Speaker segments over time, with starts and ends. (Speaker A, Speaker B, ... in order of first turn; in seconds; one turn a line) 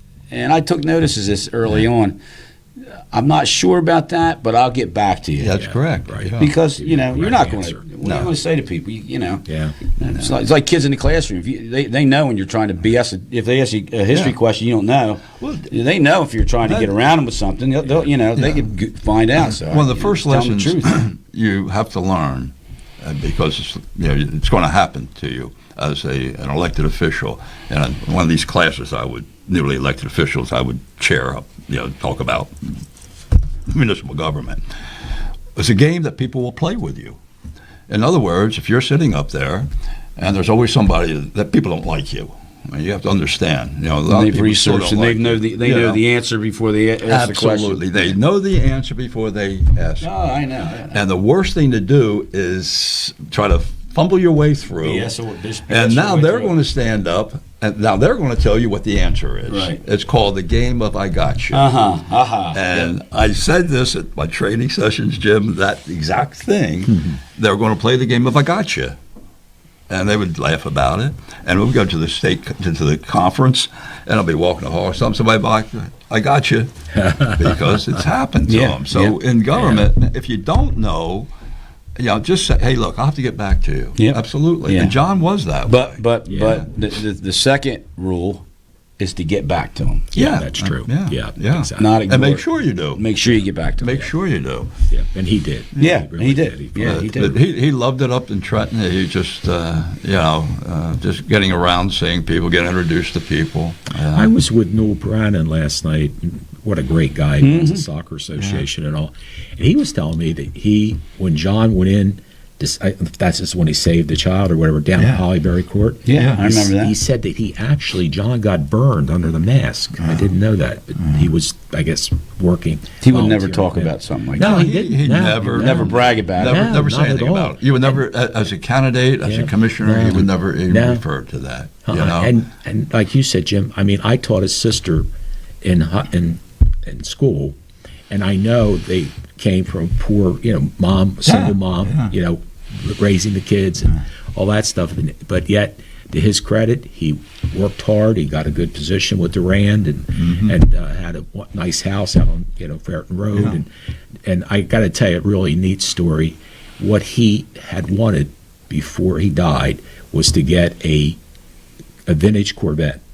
Speaker A: 0.3-2.2
Speaker A: 3.1-5.5
Speaker B: 5.4-6.5
Speaker C: 5.5-7.8
Speaker A: 6.4-9.5
Speaker B: 8.0-8.3
Speaker C: 9.5-9.8
Speaker A: 10.0-21.0
Speaker B: 14.1-14.4
Speaker B: 15.4-15.7
Speaker B: 18.4-18.6
Speaker B: 19.4-32.5
Speaker B: 33.7-34.6
Speaker B: 35.6-37.2
Speaker B: 37.9-46.0
Speaker A: 44.1-48.0
Speaker B: 47.0-50.1
Speaker A: 50.0-51.0
Speaker B: 50.9-55.1
Speaker A: 54.8-56.5
Speaker B: 55.7-61.7
Speaker A: 59.5-59.8
Speaker A: 61.5-62.9
Speaker B: 62.5-69.0
Speaker B: 69.9-81.3
Speaker C: 77.0-77.8
Speaker A: 78.5-79.9
Speaker B: 82.0-86.7
Speaker A: 84.0-85.0
Speaker A: 85.7-88.4
Speaker C: 86.3-86.6
Speaker A: 89.0-90.1
Speaker C: 90.1-92.0
Speaker B: 90.2-93.0
Speaker A: 91.8-94.0
Speaker B: 93.8-94.7
Speaker C: 94.9-97.4
Speaker A: 95.8-97.1
Speaker B: 96.8-104.3
Speaker C: 104.1-128.0
Speaker A: 107.4-107.8
Speaker B: 108.4-108.7
Speaker B: 115.0-115.2
Speaker A: 116.0-117.0
Speaker B: 116.1-116.4
Speaker B: 120.0-120.3
Speaker A: 123.0-124.6
Speaker B: 124.4-132.3
Speaker A: 125.4-126.7
Speaker C: 129.2-131.0
Speaker C: 131.9-135.1
Speaker C: 135.6-137.6
Speaker C: 138.1-153.7
Speaker B: 141.2-142.1
Speaker B: 150.2-150.6
Speaker B: 153.3-153.6
Speaker C: 154.2-161.2
Speaker C: 162.1-163.0